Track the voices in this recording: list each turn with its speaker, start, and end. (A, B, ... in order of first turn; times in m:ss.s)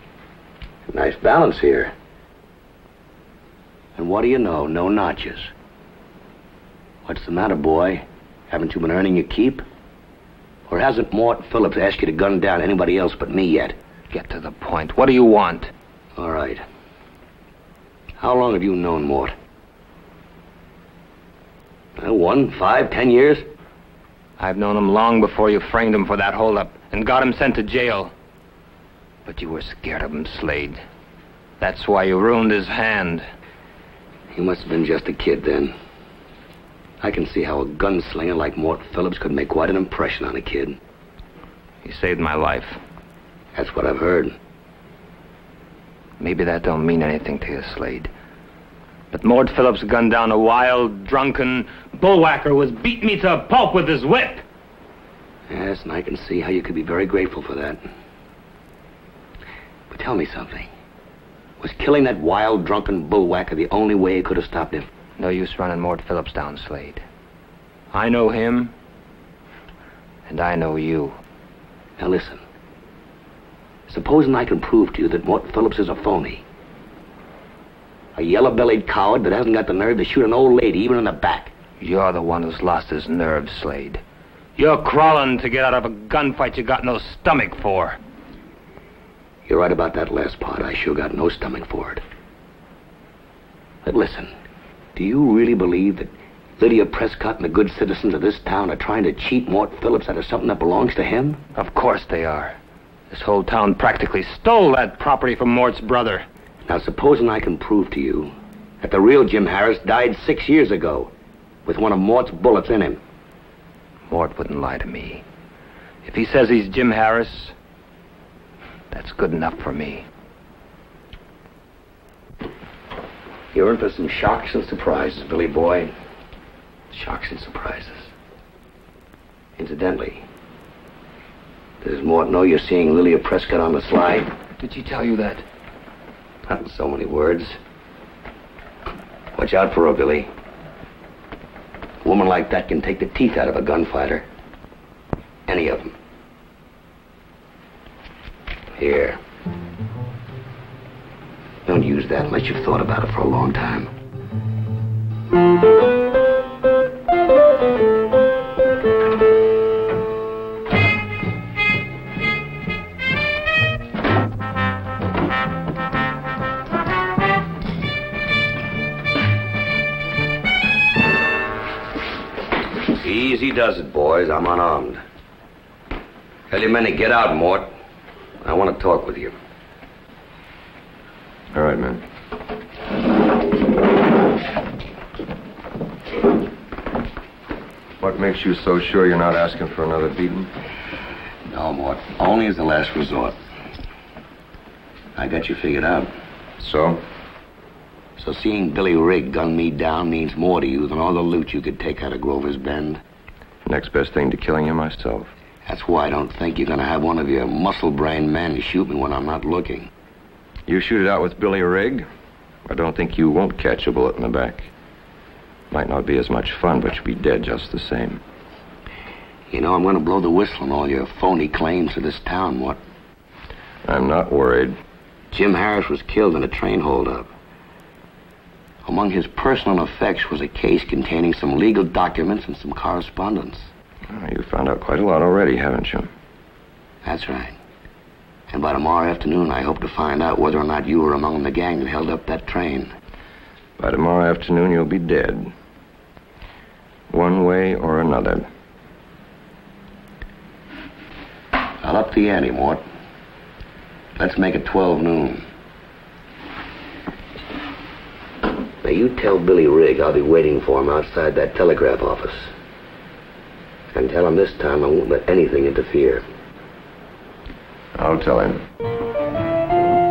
0:00.9-0:01.9 A
0:04.0-0:05.5 A
0:07.0-0:09.6 A
0:10.7-0:13.7 A
0:14.1-0:15.7 B
0:16.2-0:16.6 A
0:18.2-0:19.3 A
0:22.0-0:23.4 A
0:24.4-0:28.1 B
0:29.2-0:30.8 B
0:31.6-0:33.2 B
0:34.3-0:35.7 A
0:37.0-0:40.8 A
0:41.8-0:42.8 B
0:43.5-0:44.3 A
0:46.2-0:48.1 B
0:49.1-0:54.4 B
0:55.5-0:57.8 A
0:59.9-1:00.7 A
1:01.6-1:04.9 A
1:05.2-1:07.0 B
1:07.9-1:08.7 B
1:10.3-1:11.1 B
1:12.0-1:12.4 A
1:13.9-1:16.4 A
1:18.2-1:21.5 A
1:21.8-1:24.0 B
1:24.6-1:28.0 B
1:29.5-1:32.0 A
1:33.8-1:34.3 A
1:35.0-1:41.4 A
1:41.5-1:42.6 B
1:43.1-1:46.2 B
1:46.7-1:51.1 A
1:51.6-1:53.0 A
1:54.1-1:55.2 B
1:56.0-1:57.5 B
1:58.9-2:00.0 B
2:03.5-2:05.9 A
2:06.9-2:08.1 A
2:09.6-2:10.2 A
2:11.8-2:14.3 A
2:14.6-2:15.4 B
2:16.5-2:17.6 A
2:19.3-2:20.3 A
2:22.0-2:24.2 A
2:25.5-2:25.9 A
2:28.8-2:29.2 A
2:31.6-2:33.9 A
2:53.0-2:55.0 A
2:56.5-2:57.7 A
2:58.4-2:59.3 A
3:01.5-3:02.0 C
3:08.0-3:10.5 C
3:11.5-3:13.3 A
3:15.2-3:16.1 A
3:16.6-3:17.0 C
3:18.2-3:23.0 A
3:23.6-3:25.3 C
3:25.6-3:29.9 A
3:30.6-3:32.0 C
3:32.6-3:34.7 C
3:35.7-3:38.2 C
3:39.5-3:42.8 A
3:43.8-3:44.8 C
3:45.3-3:47.3 A
3:48.8-3:53.7 A
3:54.1-3:56.1 C
3:57.0-3:57.6 A
3:58.5-4:02.9 A
4:03.8-4:05.5 C
4:07.1-4:08.5 C
4:11.8-4:12.8 A
4:14.2-4:15.4 A
4:18.8-4:22.5 A
4:23.9-4:26.2 A
4:27.9-4:28.6 C